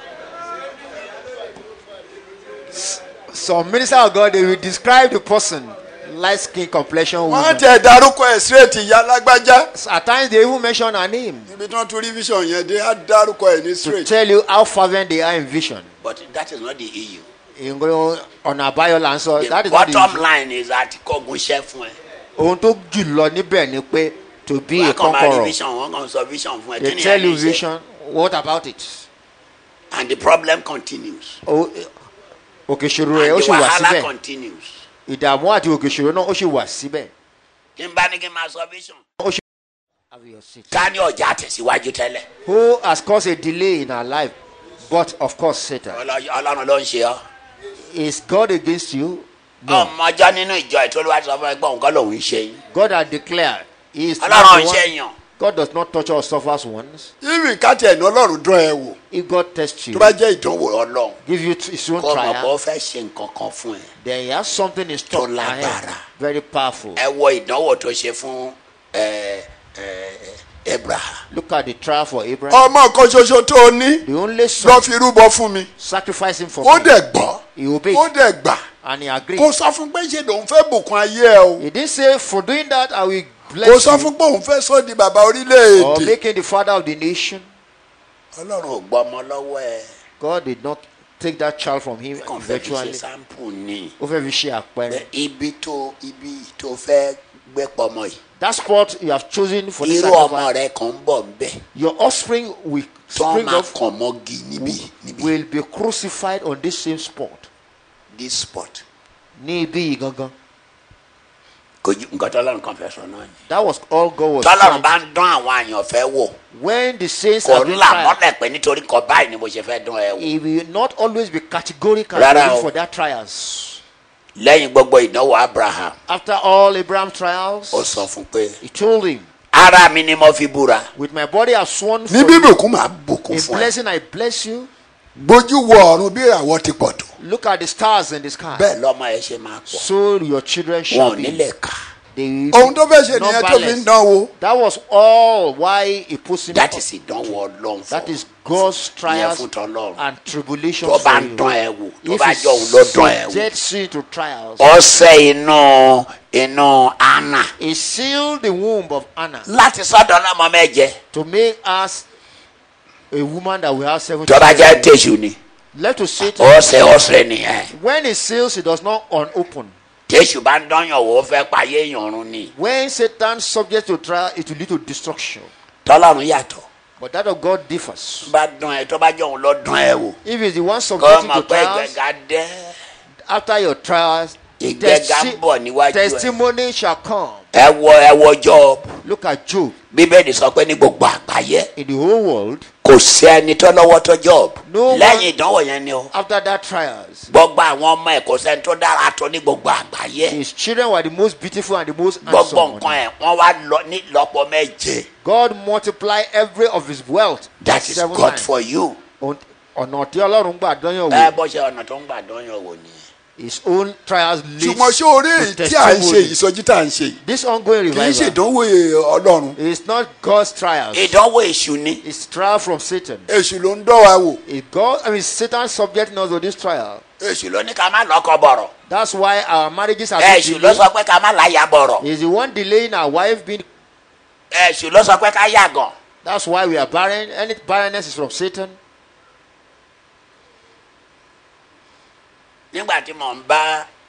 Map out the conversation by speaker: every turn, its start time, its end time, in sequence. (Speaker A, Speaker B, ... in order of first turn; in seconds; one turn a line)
Speaker A: 2.7-7.7
Speaker B: 7.3-9.7
Speaker A: 9.7-11.5
Speaker B: 11.5-14.1
Speaker A: 13.8-15.9
Speaker C: 16.0-17.3
Speaker A: 17.6-20.2
Speaker C: 19.4-22.0
Speaker A: 22.4-25.6
Speaker C: 24.7-27.6
Speaker A: 26.8-29.1
Speaker C: 29.9-31.4
Speaker A: 31.5-31.9
Speaker A: 32.7-34.1
Speaker C: 33.1-34.8
Speaker A: 35.1-37.1
Speaker C: 37.8-39.0
Speaker A: 40.1-40.9
Speaker C: 40.7-42.3
Speaker A: 42.5-46.0
Speaker C: 45.9-47.2
Speaker A: 47.9-49.9
Speaker C: 49.7-52.6
Speaker A: 52.7-57.1
Speaker C: 54.2-55.1
Speaker B: 57.2-59.0
Speaker A: 59.1-60.2
Speaker B: 59.9-60.3
Speaker C: 60.3-61.2
Speaker A: 61.2-62.5
Speaker C: 62.0-63.9
Speaker A: 64.0-67.0
Speaker C: 65.1-66.0
Speaker C: 67.0-71.2
Speaker A: 71.3-72.7
Speaker B: 72.5-74.0
Speaker A: 74.0-74.9
Speaker B: 74.6-75.7
Speaker A: 75.8-77.0
Speaker B: 76.6-77.4
Speaker A: 77.5-78.1
Speaker B: 77.9-78.6
Speaker A: 78.8-79.5
Speaker B: 79.4-81.6
Speaker A: 81.6-84.1
Speaker B: 83.6-86.2
Speaker A: 85.8-87.5
Speaker C: 88.4-89.9
Speaker A: 90.2-93.0
Speaker C: 92.2-94.0
Speaker A: 94.0-95.0
Speaker C: 94.9-98.2
Speaker A: 98.4-100.5
Speaker C: 99.8-101.6
Speaker A: 101.7-103.7
Speaker C: 103.1-105.3
Speaker A: 104.6-107.5
Speaker C: 108.1-108.8
Speaker A: 109.4-110.3
Speaker C: 111.8-113.3
Speaker A: 113.5-114.9
Speaker C: 114.4-116.4
Speaker A: 116.5-118.2
Speaker C: 117.4-120.3
Speaker A: 120.2-123.8
Speaker C: 122.1-122.7
Speaker C: 124.4-126.0
Speaker A: 126.1-128.1
Speaker C: 127.7-128.6
Speaker A: 128.6-129.3
Speaker C: 129.5-130.9
Speaker A: 130.9-132.6
Speaker B: 132.1-133.1
Speaker C: 133.1-133.7
Speaker A: 133.3-134.7
Speaker B: 135.2-137.1
Speaker A: 137.2-138.7
Speaker C: 138.6-139.9
Speaker A: 139.7-141.4
Speaker C: 140.9-141.8
Speaker A: 142.1-146.8
Speaker B: 142.5-144.3
Speaker C: 146.5-150.0
Speaker A: 147.9-149.4
Speaker A: 150.0-151.4
Speaker C: 150.8-153.5
Speaker A: 152.0-154.7
Speaker C: 154.6-157.5
Speaker A: 157.6-159.5
Speaker C: 159.5-161.0
Speaker A: 161.1-162.1
Speaker A: 163.1-164.9
Speaker C: 164.3-165.4
Speaker A: 165.7-166.6
Speaker C: 166.2-167.7
Speaker A: 167.7-169.7
Speaker C: 170.1-172.5
Speaker A: 172.5-175.5
Speaker C: 175.9-176.7
Speaker A: 177.0-178.3
Speaker C: 178.2-180.2
Speaker A: 180.2-182.0
Speaker C: 181.0-182.7
Speaker A: 183.3-187.5
Speaker C: 184.6-186.4
Speaker C: 187.5-188.9
Speaker A: 189.0-189.8
Speaker C: 189.9-191.7
Speaker A: 191.8-192.7
Speaker C: 192.8-196.1
Speaker A: 194.6-195.3
Speaker A: 196.1-197.3
Speaker C: 197.3-200.4
Speaker A: 200.3-203.0
Speaker C: 202.2-205.1
Speaker A: 205.2-208.5
Speaker C: 207.6-209.0
Speaker A: 209.2-211.4
Speaker C: 211.1-213.0
Speaker A: 213.4-216.4
Speaker B: 214.6-217.2
Speaker A: 217.2-218.4
Speaker B: 217.9-219.6
Speaker A: 219.6-221.2
Speaker C: 220.9-222.0
Speaker A: 222.0-223.3
Speaker B: 223.3-224.4
Speaker A: 224.5-227.0
Speaker C: 227.2-228.7
Speaker A: 228.9-230.8
Speaker C: 230.2-232.0
Speaker A: 232.0-233.7
Speaker C: 234.5-235.9
Speaker A: 236.2-238.8
Speaker C: 242.7-243.9